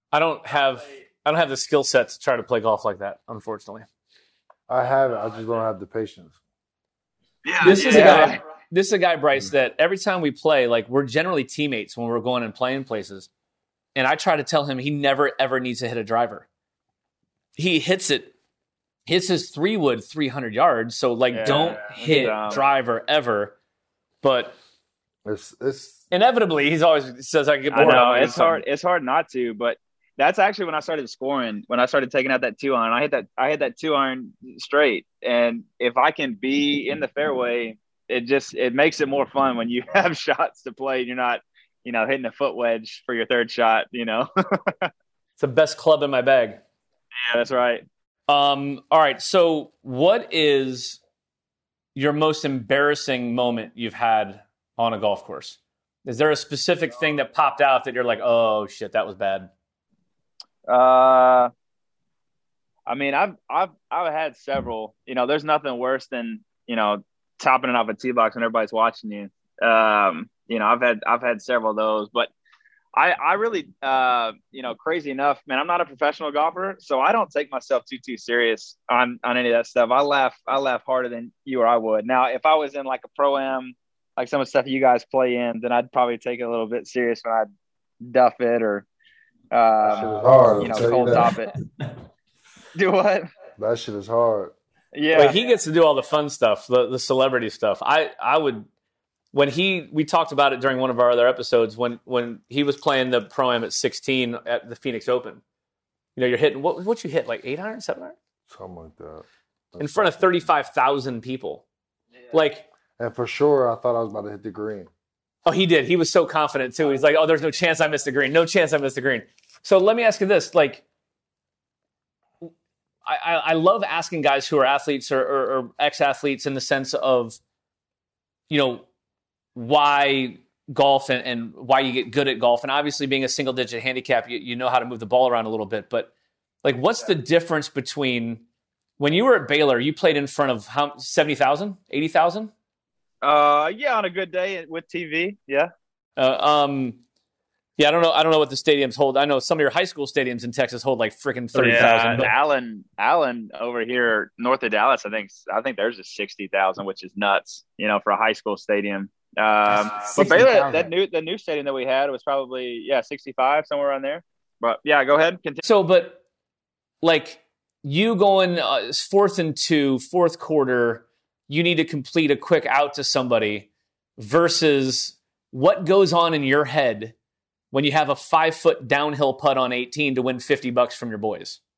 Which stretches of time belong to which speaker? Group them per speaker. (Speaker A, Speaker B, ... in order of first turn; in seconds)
Speaker A: 0.1-3.9, 7.6-13.3, 13.9-16.5, 17.5-18.3, 19.1-23.6, 24.2-24.6, 26.1-28.6, 45.4-46.6, 48.3-51.0, 51.9-59.5, 95.1-98.7, 99.3-105.4, 106.2-108.2, 109.8-111.6, 112.3-112.7, 115.4-120.8, 123.0-127.4, 128.5-128.8, 129.5-136.1, 136.6-138.4, 139.0-142.5, 146.2-147.0, 147.8-152.3, 160.1-160.4, 165.6-166.2, 167.0-177.1, 177.7-181.6
Speaker B: 4.7-6.4, 25.2-26.0, 89.8-91.3, 93.6-94.5, 108.5-110.2, 113.0-114.9, 160.2-160.9
Speaker C: 7.4-8.4, 21.3-22.6, 27.7-44.9, 47.2-47.8, 60.7-61.5, 62.9-72.3, 72.9-87.5, 88.0-88.8, 89.5-91.5, 92.7-93.3, 94.9-95.4, 143.2-145.7, 151.5-165.6